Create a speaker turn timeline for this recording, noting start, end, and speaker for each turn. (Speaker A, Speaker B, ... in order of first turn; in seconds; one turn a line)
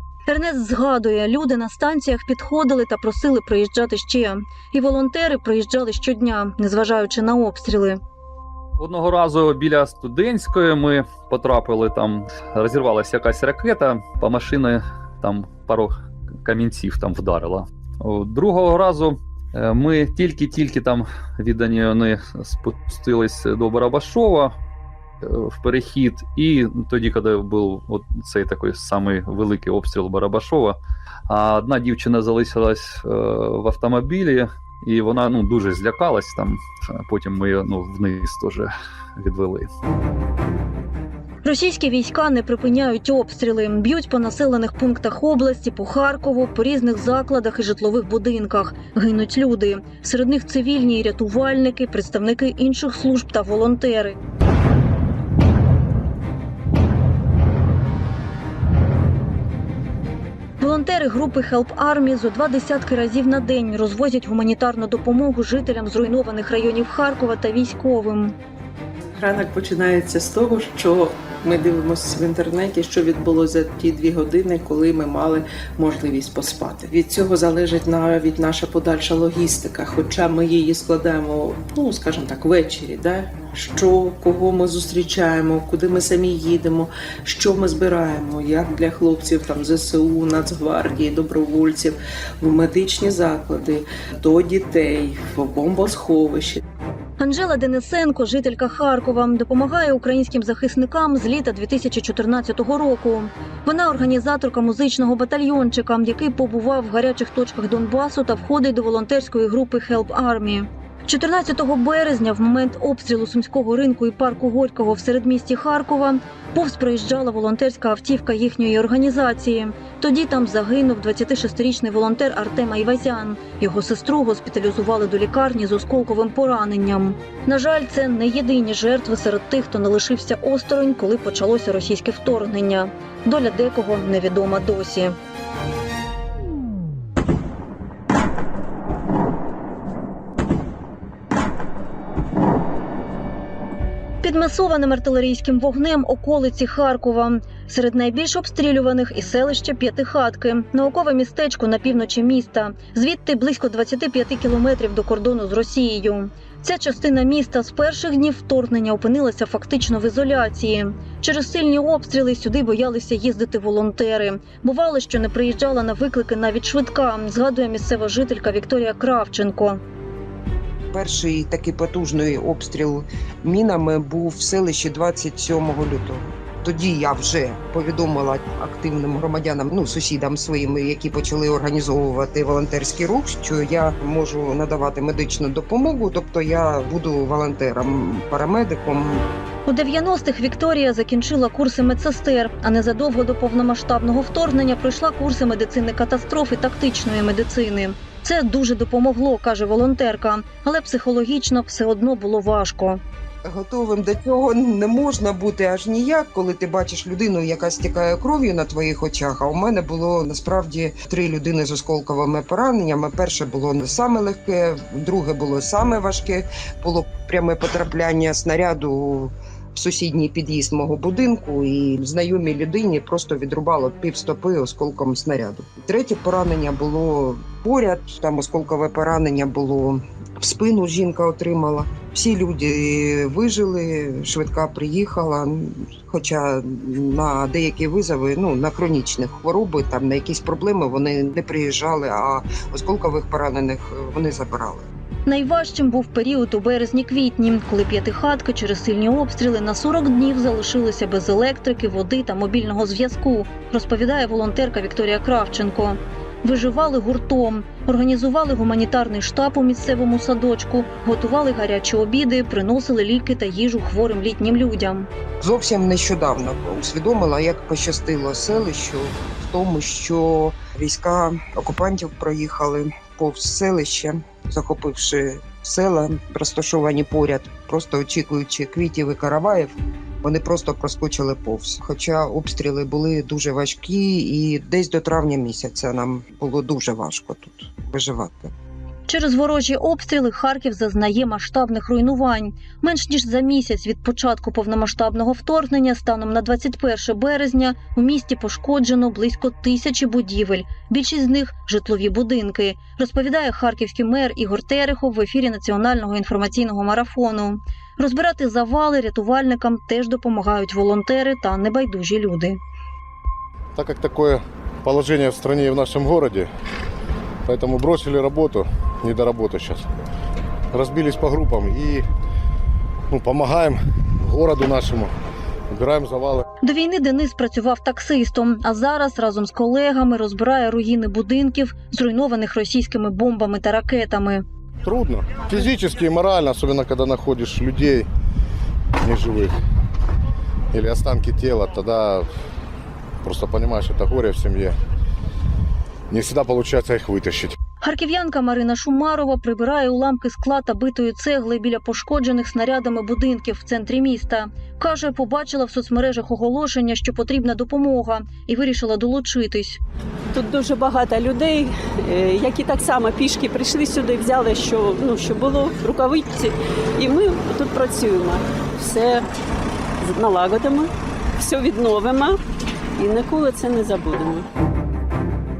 Speaker A: 0.3-8.0
Speaker B: 8.8-15.9
Speaker B: 16.4-24.5
Speaker B: 25.2-39.7
Speaker A: 41.4-54.2
Speaker A: 60.6-68.3
Speaker C: 69.1-96.6
Speaker A: 97.2-135.2
Speaker A: 144.2-169.8
Speaker D: 170.9-189.2
Speaker A: 189.7-203.0
Speaker D: 203.4-244.9
Speaker A: 245.2-265.1
Speaker D: 265.4-288.5
Speaker A: 289.1-312.6
Speaker E: 313.7-316.5
Speaker E: 317.4-319.9
Speaker E: 320.7-322.0
Speaker E: 323.1-325.1
Speaker E: 325.7-326.4
Speaker A: 326.6-334.4
Speaker E: 334.8-338.1
Speaker E: 339.0-339.6
Speaker E: 340.7-342.3
Speaker E: 343.2-344.8
Speaker E: 346.1-347.6
Speaker A: 347.8-359.8
Speaker F: 360.3-369.2
Speaker F: 370.0-372.4
Speaker F: 373.0-374.4